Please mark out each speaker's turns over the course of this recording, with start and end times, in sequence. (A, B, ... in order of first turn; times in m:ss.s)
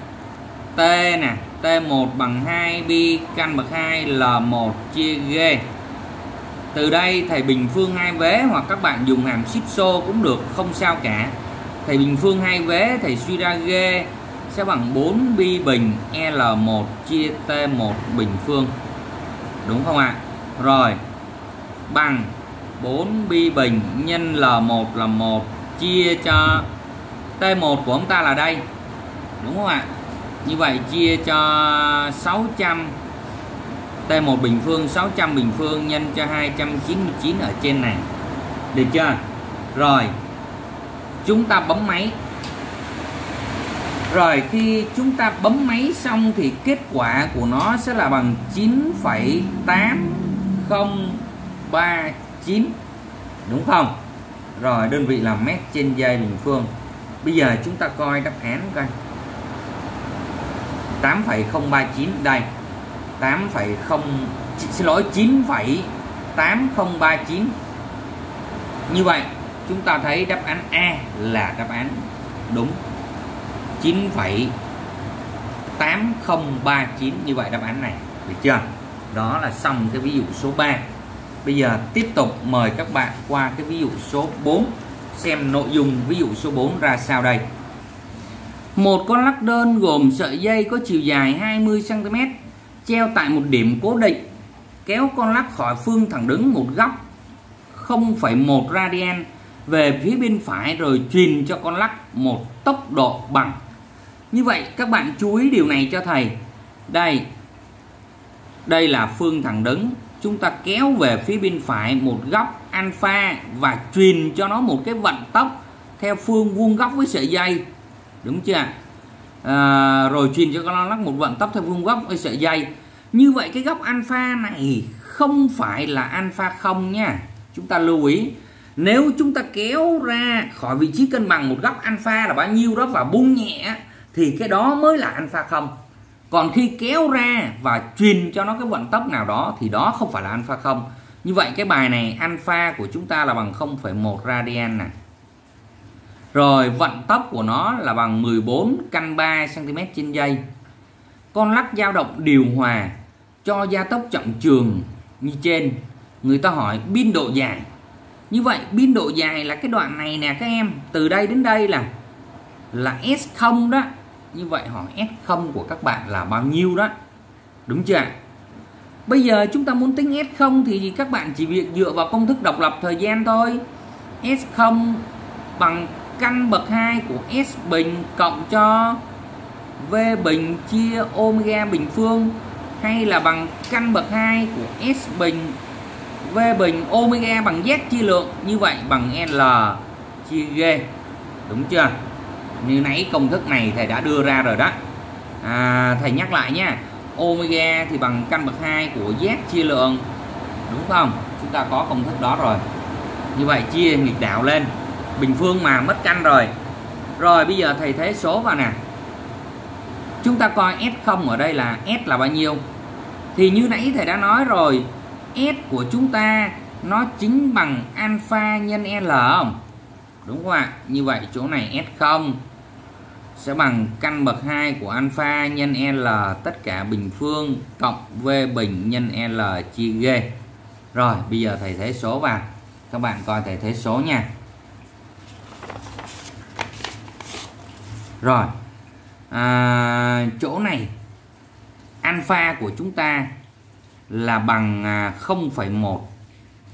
0:00.7-0:05.7 A
0:06.7-0:18.7 A
0:19.6-0:21.0 A
0:21.9-0:26.7 A
0:27.4-0:28.6 A
0:29.4-0:29.9 A
0:30.4-0:33.0 A
0:34.1-0:38.1 A
0:38.7-0:39.2 A
0:39.7-0:40.1 A
0:41.2-0:42.2 A
0:44.1-0:52.8 A
0:53.4-0:54.0 A
0:54.6-0:56.7 A
0:57.2-0:58.9 A
1:01.0-1:02.5 A
1:03.2-1:07.5 A
1:08.9-1:12.8 A
1:13.8-1:14.5 A
1:15.8-1:20.8 A
1:21.4-1:27.4 A
1:28.8-1:34.2 A
1:34.8-1:37.0 A
1:37.7-1:43.6 A
1:44.3-1:46.4 A
1:46.9-1:47.3 A
1:48.6-1:57.6 A
1:58.2-1:58.7 A
1:59.4-2:15.7 A
2:16.3-2:24.9 A
2:26.3-2:30.4 A
2:31.3-2:37.7 A
2:38.3-2:41.9 A
2:42.7-2:46.9 A
2:47.7-2:48.1 A
2:49.1-2:53.6 A
2:54.2-2:59.0 A
2:59.8-3:05.6 A
3:06.2-3:10.9 A
3:11.5-3:12.0 A
3:12.6-3:14.8 A
3:15.4-3:20.0 A
3:20.7-3:22.6 A
3:23.3-3:26.5 A
3:27.2-3:28.8 A
3:30.2-3:32.6 A
3:33.3-3:39.6 A
3:40.2-3:42.4 A
3:43.4-3:50.3 A
3:50.9-3:54.3 A
3:58.2-3:58.5 A
3:59.3-4:00.9 A
4:02.0-4:03.3 A
4:04.1-4:06.1 A